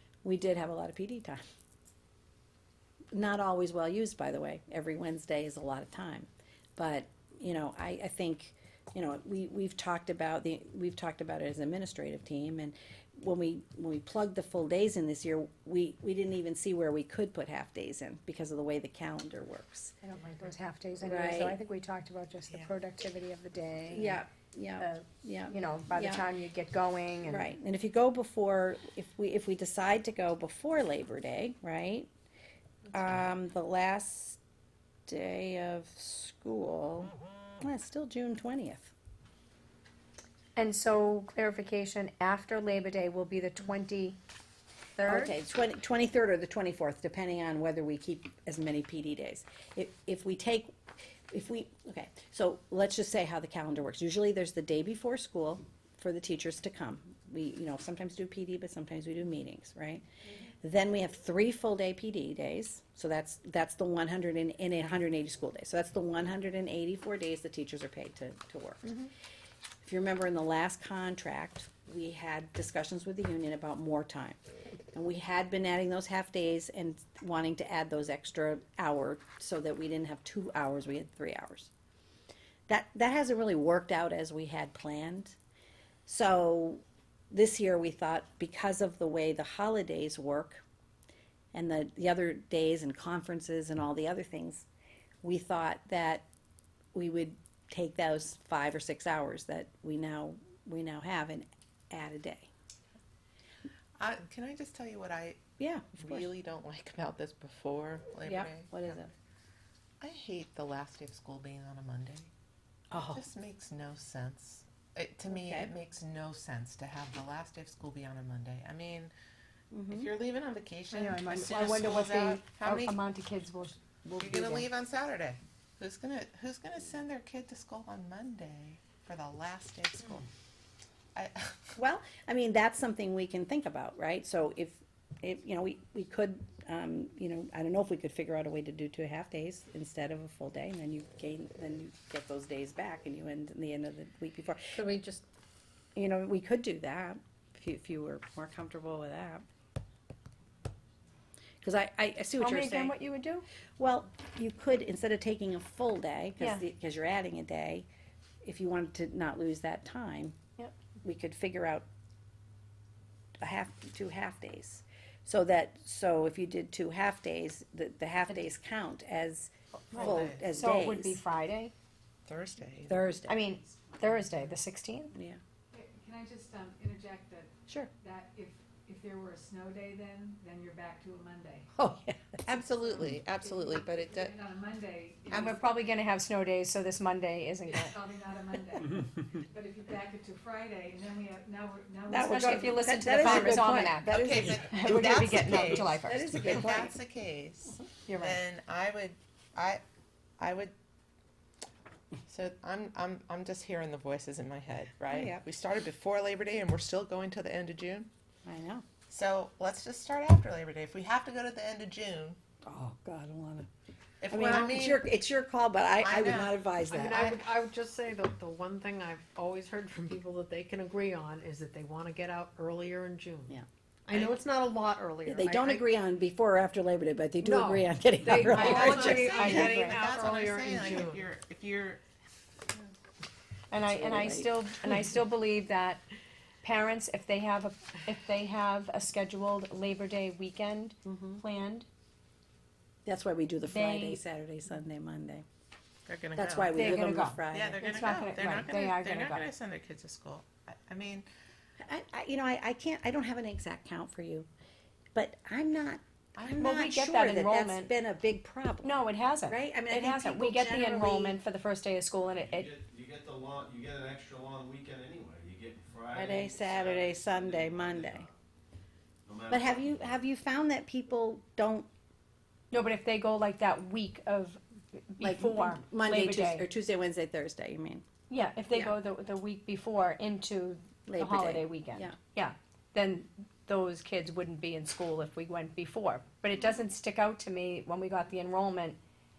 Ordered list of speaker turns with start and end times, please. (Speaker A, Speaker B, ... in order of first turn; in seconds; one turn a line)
Speaker A: 0.2-1.4
Speaker A: 3.1-19.9
Speaker B: 20.0-24.2
Speaker A: 21.0-21.6
Speaker A: 23.9-26.3
Speaker B: 24.8-27.5
Speaker A: 27.3-32.1
Speaker A: 32.9-34.4
Speaker A: 35.1-38.9
Speaker B: 40.5-44.2
Speaker B: 45.0-45.4
Speaker A: 45.0-50.7
Speaker A: 51.3-60.0
Speaker A: 60.6-69.0
Speaker A: 69.8-74.4
Speaker A: 74.9-81.7
Speaker A: 82.7-85.3
Speaker A: 86.0-90.6
Speaker A: 91.5-94.7
Speaker A: 95.2-96.2
Speaker A: 96.9-102.5
Speaker C: 104.0-109.0
Speaker A: 105.6-106.2
Speaker A: 108.2-109.1
Speaker C: 110.0-112.3
Speaker A: 112.9-113.2
Speaker C: 113.1-119.1
Speaker A: 115.3-115.7
Speaker A: 119.7-120.1
Speaker C: 119.9-123.0
Speaker B: 120.9-124.7
Speaker C: 124.2-130.3
Speaker C: 131.2-131.7
Speaker A: 131.8-144.9
Speaker A: 145.9-149.4
Speaker A: 151.6-152.9
Speaker B: 152.4-153.4
Speaker A: 153.8-157.8
Speaker A: 158.4-160.3
Speaker A: 161.0-161.8
Speaker A: 163.4-171.2
Speaker B: 169.9-171.7
Speaker C: 169.9-170.5
Speaker C: 172.2-173.0
Speaker A: 172.9-173.4
Speaker B: 173.3-175.1
Speaker A: 175.1-175.4
Speaker D: 175.7-177.5
Speaker D: 178.0-181.7
Speaker A: 181.7-182.6
Speaker C: 182.4-184.3
Speaker D: 183.6-185.6
Speaker C: 185.3-185.5
Speaker B: 185.3-188.0
Speaker D: 187.9-189.0
Speaker D: 189.5-193.3
Speaker A: 192.1-196.9
Speaker B: 192.2-196.8
Speaker C: 194.0-199.8
Speaker B: 198.1-198.4
Speaker C: 200.4-200.7
Speaker C: 202.3-208.1
Speaker A: 205.1-205.4
Speaker A: 208.4-208.8
Speaker C: 209.1-212.4
Speaker A: 212.6-213.7
Speaker C: 214.2-215.0
Speaker A: 214.3-217.3
Speaker C: 216.0-216.5
Speaker E: 216.9-225.8
Speaker C: 217.1-217.4
Speaker A: 225.2-229.7
Speaker E: 227.4-231.2
Speaker B: 228.4-230.0
Speaker C: 228.5-232.0
Speaker B: 233.7-236.0
Speaker A: 233.8-234.5
Speaker B: 236.6-241.9
Speaker A: 241.0-241.4
Speaker A: 243.1-245.4
Speaker B: 243.7-244.2
Speaker C: 246.1-251.2
Speaker A: 246.3-247.8
Speaker B: 246.7-249.5
Speaker A: 251.8-254.5
Speaker A: 255.1-261.4
Speaker C: 256.4-256.7
Speaker B: 256.5-257.9
Speaker B: 258.8-262.7
Speaker F: 262.3-268.4
Speaker A: 266.1-268.3
Speaker F: 269.2-270.2
Speaker A: 269.5-271.9
Speaker B: 272.7-276.6
Speaker A: 275.2-278.0
Speaker B: 278.3-289.0
Speaker A: 281.1-282.1